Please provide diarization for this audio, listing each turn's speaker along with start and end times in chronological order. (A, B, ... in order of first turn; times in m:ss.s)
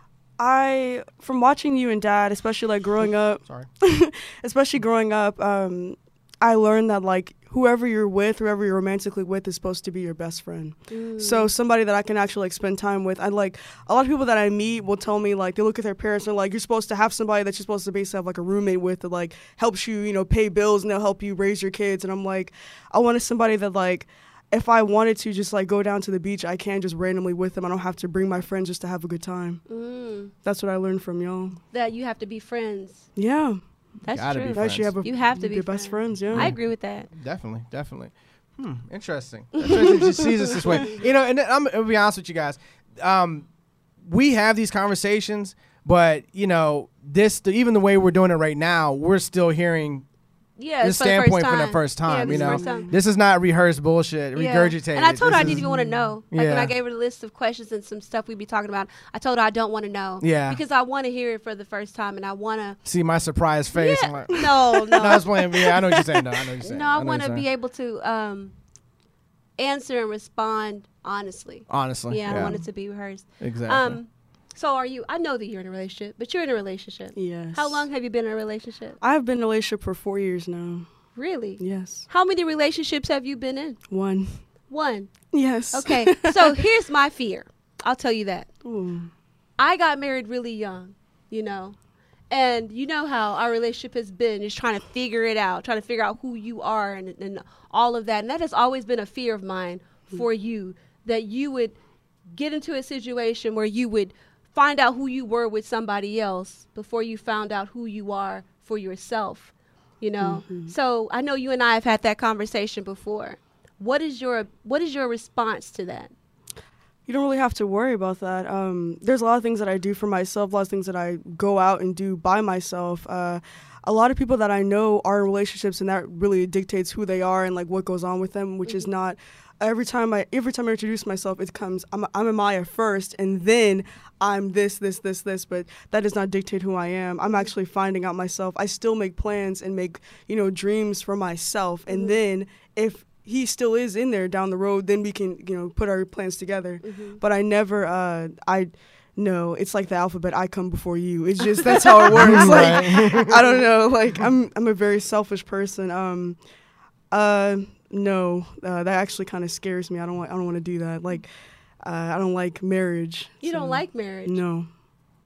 0:00.4-0:29.6 A
0:10.9-0:11.5 B
0:29.7-0:30.3 B
0:30.4-0:31.6 A
0:31.7-0:33.1 B
0:33.2-0:33.6 A
0:34.0-0:37.1 B
0:34.1-0:34.9 C
0:34.5-0:36.5 A
0:36.3-0:36.6 C
0:37.1-0:43.5 C
0:39.6-0:40.9 B
0:44.0-0:50.0 C
0:50.6-0:52.9 B
0:50.8-0:55.7 C
0:52.3-0:53.0 A
0:54.4-1:02.8 B
0:55.3-0:56.1 A
0:56.3-0:56.7 C
1:00.2-1:00.6 C
1:02.8-1:07.4 C
1:03.8-1:05.3 B
1:04.3-1:06.3 A
1:06.6-1:08.5 B
1:09.6-1:19.0 B
1:11.7-1:12.6 C
1:12.3-1:12.6 A
1:13.4-1:14.0 C
1:17.2-1:17.9 A
1:19.0-1:20.9 A
1:21.2-1:23.8 B
1:21.6-1:22.1 A
1:23.9-1:24.4 A
1:24.7-1:25.1 B
1:25.3-1:26.7 A
1:25.7-1:28.5 B
1:28.6-1:29.1 A
1:29.6-1:31.8 B
1:32.3-1:41.8 B
1:42.4-1:56.1 B
1:50.2-1:50.7 A
1:57.1-2:36.4 A
2:21.9-2:22.2 B
2:26.8-2:27.2 B
2:31.6-2:33.2 B
2:32.1-2:33.5 C
2:37.1-2:41.3 A
2:41.8-2:44.7 A
2:43.4-2:44.4 B